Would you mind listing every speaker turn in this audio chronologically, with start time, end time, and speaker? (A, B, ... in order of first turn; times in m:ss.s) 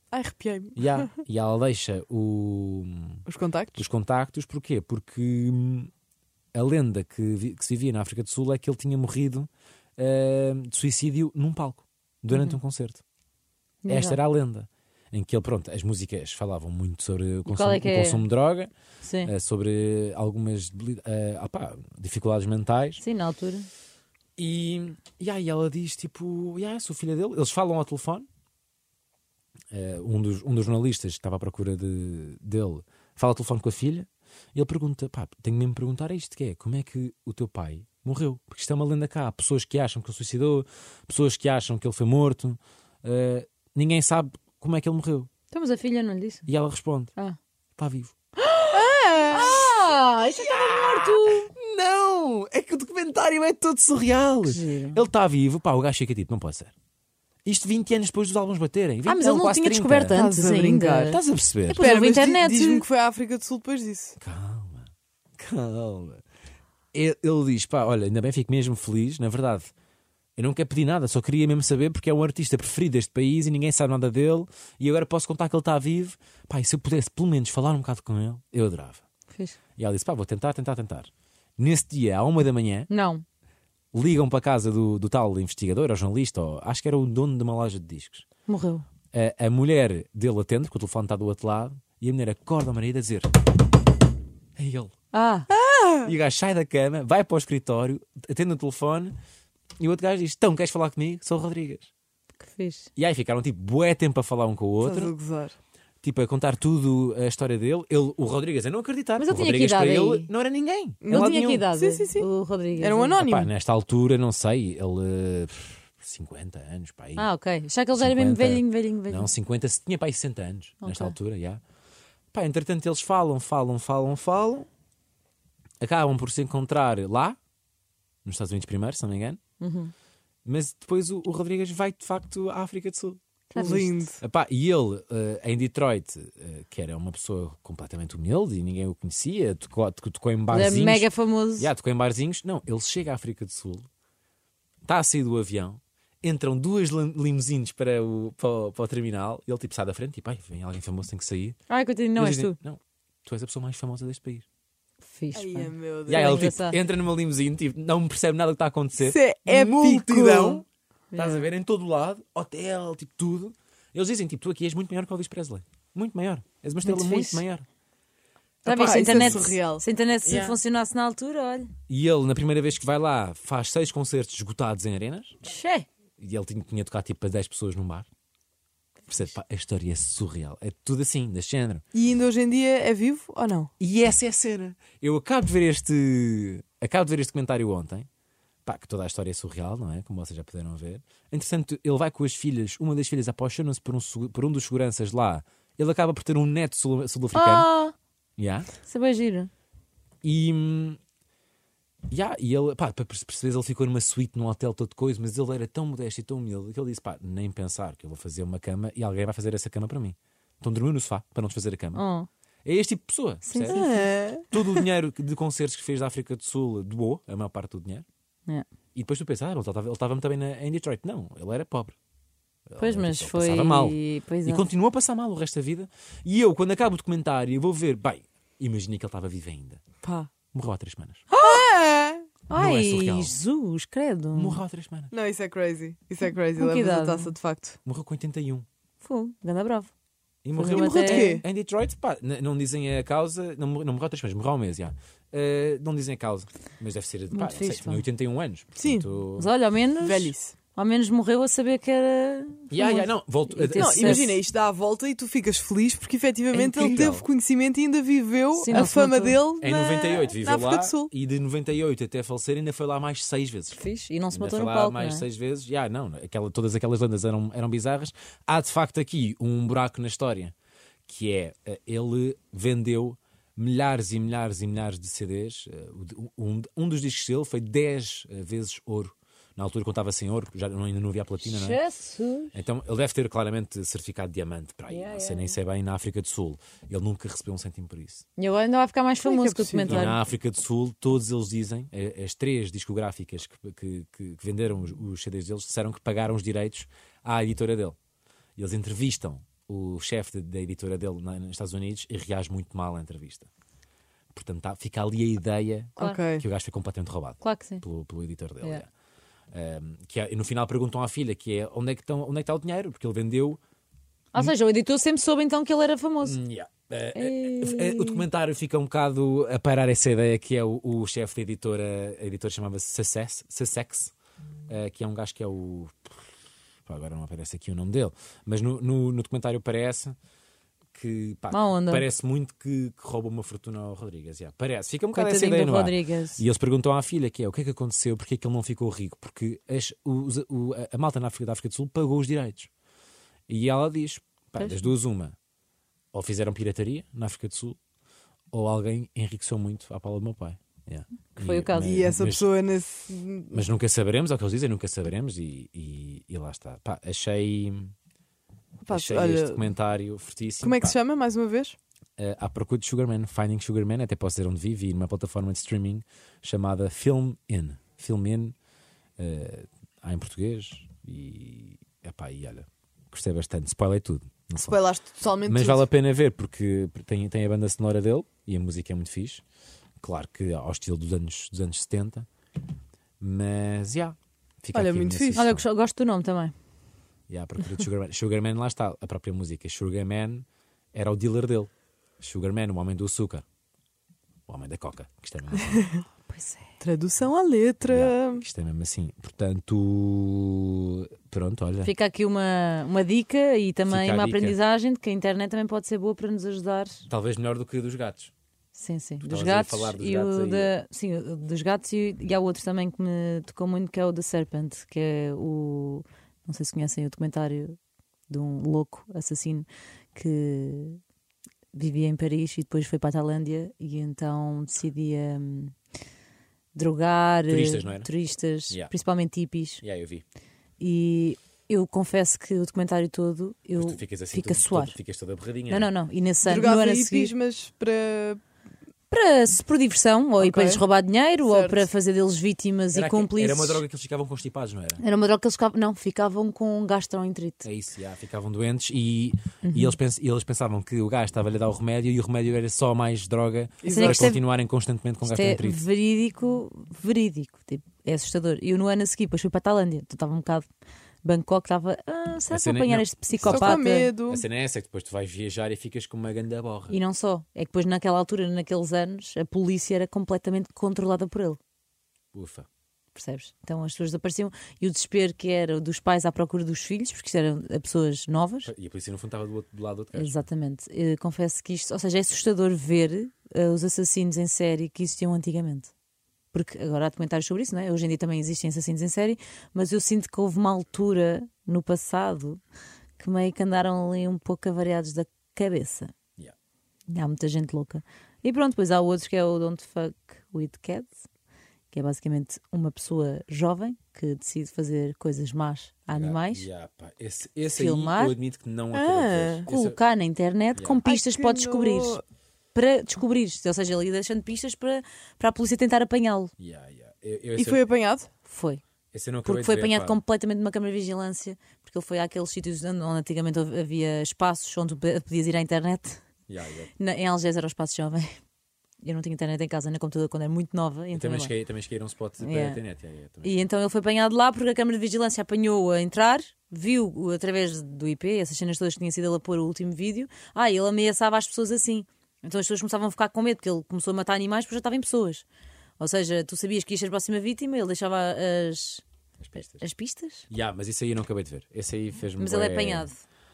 0:00.1-0:01.1 A
0:00.8-0:03.2 B
0:03.2-0:03.8 A
0:03.8-0:05.9 B
0:06.5-0:13.0 B
0:12.3-0:12.6 C
0:13.8-0:14.2 C
0:13.9-0:18.7 B
0:17.4-0:18.2 C
0:19.0-0:19.3 C
0:19.2-0:23.0 B
0:23.0-0:23.7 C
0:24.4-0:28.2 B
0:29.7-0:45.3 B
0:45.5-0:46.5 C
0:46.5-0:47.1 B
0:47.8-0:48.1 B
0:48.4-0:51.5 C
0:48.7-0:49.6 A
0:50.3-0:56.7 B
0:54.4-0:55.0 C
0:57.4-1:00.2 B
0:59.0-1:02.8 C
1:00.1-1:01.2 A
1:01.1-1:01.8 B
1:01.8-1:04.2 A
1:04.2-1:06.2 B
1:06.9-1:09.7 B
1:10.4-1:19.0 B
1:19.3-1:19.6 C
1:19.8-1:22.9 B
1:22.9-1:23.2 C
1:23.9-1:28.2 B
1:28.5-1:28.8 C
1:29.1-1:33.3 B
1:34.6-1:34.9 B
1:35.1-1:35.5 C
1:35.5-1:36.1 A
1:36.0-1:39.1 B
1:39.8-1:41.9 B
1:42.4-1:42.8 C
1:43.0-1:45.1 B
1:44.8-1:45.6 A
1:46.0-1:51.3 B
1:49.2-1:50.3 C
1:51.0-1:53.5 A
1:51.1-1:53.2 C
1:53.2-1:57.3 B
1:57.2-1:59.3 C
1:58.0-2:01.6 B
2:00.8-2:01.1 C
2:02.3-2:04.7 B
2:05.8-2:07.4 B
2:08.2-2:09.4 B
2:09.6-2:09.9 C
2:10.4-2:23.9 B
2:13.5-2:13.9 C
2:13.6-2:14.2 A
2:20.5-2:21.7 C
2:24.8-2:31.6 B
2:31.7-2:32.6 C
2:32.2-2:34.4 B
2:35.0-2:36.8 C
2:35.3-2:36.5 A
2:36.1-2:40.6 B
2:39.0-2:40.6 A
2:41.1-2:41.5 C
2:41.2-2:47.6 B
2:46.8-2:47.4 C
2:48.6-2:49.8 A
2:48.6-2:51.7 C
2:48.6-2:49.5 B
2:50.2-2:50.6 B
2:51.9-2:55.4 B
2:55.4-2:55.8 C
2:56.2-2:58.1 B
2:59.1-3:01.8 B
3:01.9-3:03.7 A
3:03.8-3:08.1 B
3:08.6-3:17.7 B
3:17.3-3:17.9 C
3:18.4-3:18.7 B
3:18.8-3:19.5 C
3:20.2-3:21.0 B
3:22.1-3:32.0 B
3:31.9-3:32.3 C
3:32.6-3:34.0 B
3:33.4-3:33.8 C
3:33.7-3:34.8 A
3:34.5-3:38.0 B
3:38.9-3:42.0 B
3:42.7-3:49.8 B
3:42.8-3:44.6 C
3:50.0-3:50.3 A
3:50.5-3:51.3 B
3:51.3-3:51.6 C
3:51.4-3:52.3 A
3:52.5-3:54.6 C
3:52.5-3:53.4 B
3:54.3-3:55.1 B
3:55.1-3:57.8 A
3:56.2-3:57.3 C
3:57.8-3:58.6 B
3:59.0-3:59.9 C
4:00.4-4:09.5 B
4:00.6-4:01.4 C
4:00.6-4:01.4 A
4:07.3-4:08.0 C
4:08.8-4:09.1 A
4:09.4-4:14.4 C
4:10.0-4:10.5 A
4:12.7-4:14.4 B
4:13.7-4:21.1 A
4:16.5-4:17.2 B
4:18.5-4:19.4 C
4:19.6-4:23.8 B
4:23.7-4:25.3 C
4:24.3-4:30.5 B
4:31.1-4:41.8 B
4:41.4-4:42.5 C
4:42.5-4:48.2 B
4:44.9-4:45.6 C
4:48.4-4:50.2 C
4:49.2-4:50.1 A
4:49.9-4:58.0 B
4:58.6-5:03.5 B
5:04.3-5:08.9 B
5:06.0-5:06.4 A
5:07.4-5:07.8 C
5:09.5-5:13.6 B
5:14.3-5:16.4 C
5:16.2-5:24.1 B
5:17.1-5:18.2 C
5:24.7-5:26.3 B
5:26.8-5:30.1 B
5:30.9-5:42.7 B
5:31.5-5:32.1 C
5:35.1-5:36.4 C
5:43.5-5:45.3 B
5:44.6-5:44.8 C
5:46.1-5:47.8 B
5:48.5-5:52.4 B
5:51.4-5:52.1 C
5:51.8-5:53.6 A
5:53.5-5:57.9 B
5:58.8-5:59.6 A
5:58.9-6:00.9 B
6:00.6-6:01.8 A
6:02.2-6:08.5 B
6:09.2-6:14.8 B
6:14.7-6:15.9 A
6:15.4-6:19.4 B
6:20.0-6:22.3 B
6:23.2-6:25.6 B
6:24.7-6:25.4 A
6:25.4-6:26.5 C
6:27.3-6:33.4 B
6:34.5-6:36.0 B
6:36.3-6:36.6 C
6:36.8-6:38.4 A
6:37.8-6:41.9 B
6:41.8-6:47.0 C
6:43.9-6:44.6 B
6:47.1-6:48.3 B
6:48.7-6:57.8 C
6:49.2-6:50.7 B
6:58.3-7:01.0 C
7:01.7-7:05.7 C
7:06.7-7:09.8 C
7:07.5-7:08.1 B
7:09.8-7:10.2 B
7:10.8-7:15.0 C
7:13.8-7:15.9 B
7:15.7-7:17.3 C
7:16.4-7:18.4 A
7:19.1-7:23.8 C
7:20.4-7:20.8 A
7:21.4-7:21.9 A
7:22.9-7:25.0 B
7:25.0-7:27.7 C
7:27.6-7:35.8 B
7:29.6-7:30.0 C
7:33.8-7:34.3 A
7:33.9-7:34.4 C
7:35.2-7:40.7 C
7:41.2-7:44.1 C
7:42.5-7:47.0 B
7:43.3-7:44.4 A
7:46.9-7:51.6 C
7:52.3-7:52.7 B
7:53.1-7:58.7 C
7:58.6-8:00.5 B
8:00.1-8:05.9 C
8:06.5-8:12.6 C
8:13.2-8:16.1 C
8:17.1-8:21.2 C
8:21.9-8:26.6 C
8:26.1-8:30.0 B
8:27.6-8:28.4 C
8:28.9-8:29.7 A
8:29.7-8:32.2 C
8:30.8-8:31.0 B
8:31.0-8:32.2 A
8:32.7-8:36.5 C
8:36.6-8:37.8 B
8:37.6-8:38.3 A
8:38.5-8:38.8 C
8:39.1-8:40.2 B
8:39.4-8:46.2 C
8:46.5-8:46.9 B
8:47.0-8:48.4 C
8:49.0-8:51.5 C
8:51.1-8:53.6 B
8:52.4-8:52.8 C
8:53.4-9:05.4 C
9:06.0-9:09.0 C
9:09.4-9:09.8 B
9:09.6-9:10.5 C
9:10.5-9:13.1 B
9:12.4-9:13.2 C